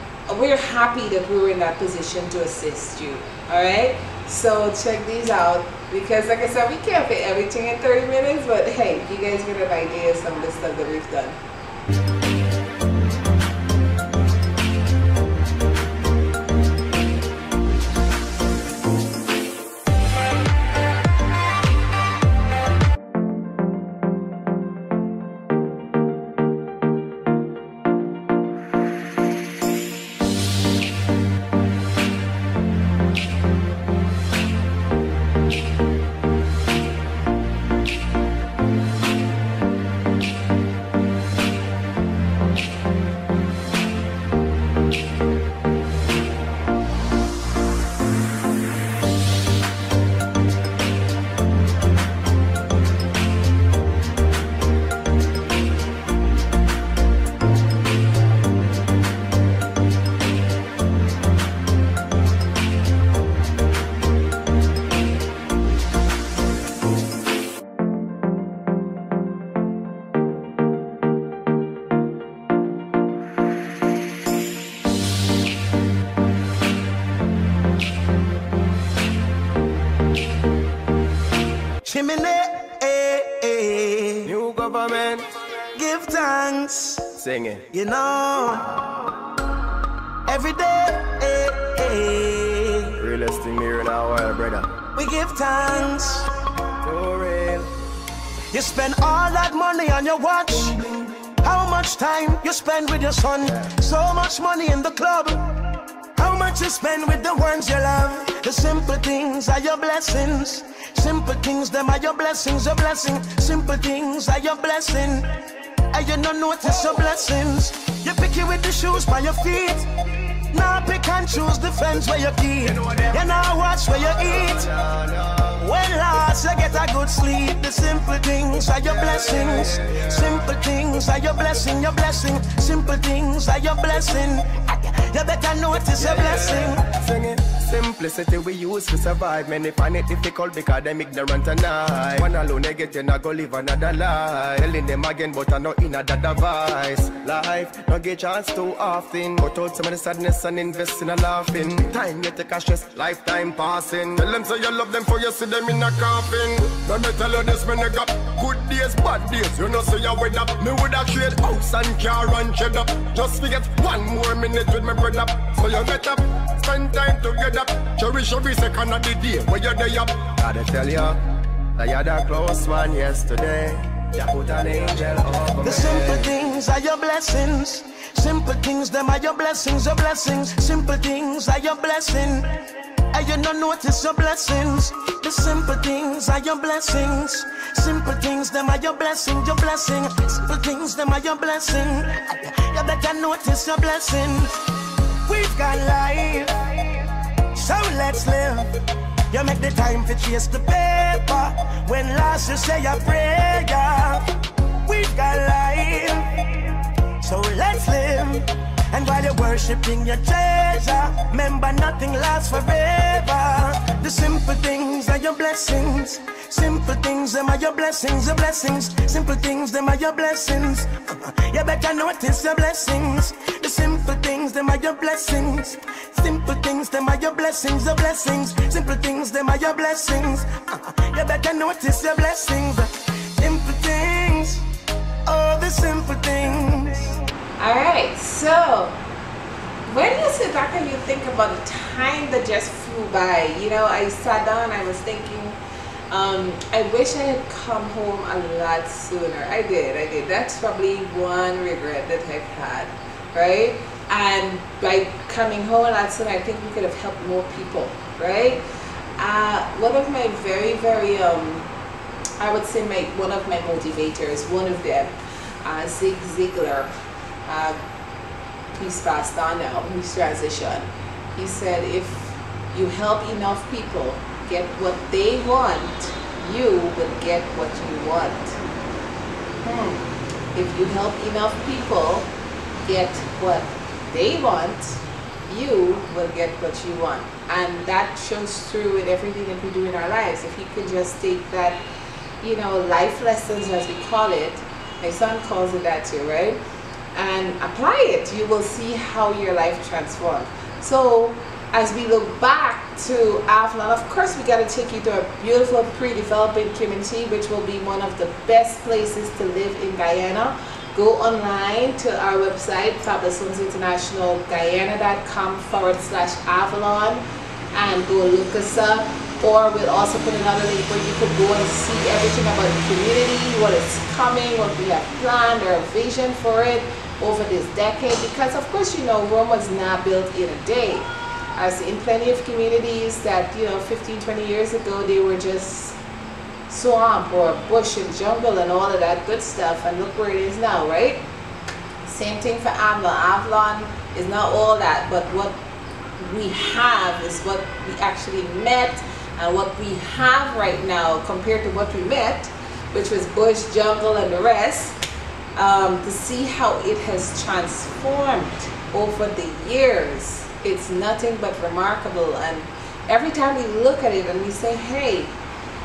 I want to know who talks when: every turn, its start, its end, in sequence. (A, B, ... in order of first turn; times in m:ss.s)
0:00.3-0:11.4 A
1:21.8-1:24.3 B
1:24.2-1:25.2 C
1:25.7-1:27.1 B
1:27.2-1:27.6 C
1:27.7-1:28.9 B
1:30.2-1:32.9 B
1:33.0-1:34.7 C
1:34.9-1:36.3 B
1:36.8-1:37.7 C
1:38.5-1:45.4 B
1:46.2-1:55.3 B
1:55.9-1:59.9 B
2:00.5-2:04.7 B
2:02.6-2:05.6 C
2:05.6-2:16.8 B
2:08.9-2:10.4 C
2:16.0-2:51.2 C
2:51.8-2:56.3 C
2:55.6-3:02.5 B
3:03.1-3:14.6 B
3:15.2-3:16.6 B
3:17.5-3:18.7 B
3:19.3-3:24.3 B
3:24.8-3:26.5 B
3:27.2-3:54.6 B
3:55.2-3:57.2 B
3:57.6-3:59.0 A
3:59.9-4:05.6 A
4:06.1-4:18.6 A
4:19.2-4:21.7 A
4:22.4-4:26.9 A
4:27.4-4:27.8 A
4:28.7-4:38.6 A
4:39.6-4:40.0 A
4:40.5-4:42.3 A
4:42.8-4:51.8 A
4:52.4-4:56.6 A
4:57.1-5:17.2 A
5:17.7-5:36.0 A
5:36.7-5:41.2 A
5:42.0-5:45.6 A
5:46.2-5:55.0 A
5:55.6-6:05.3 A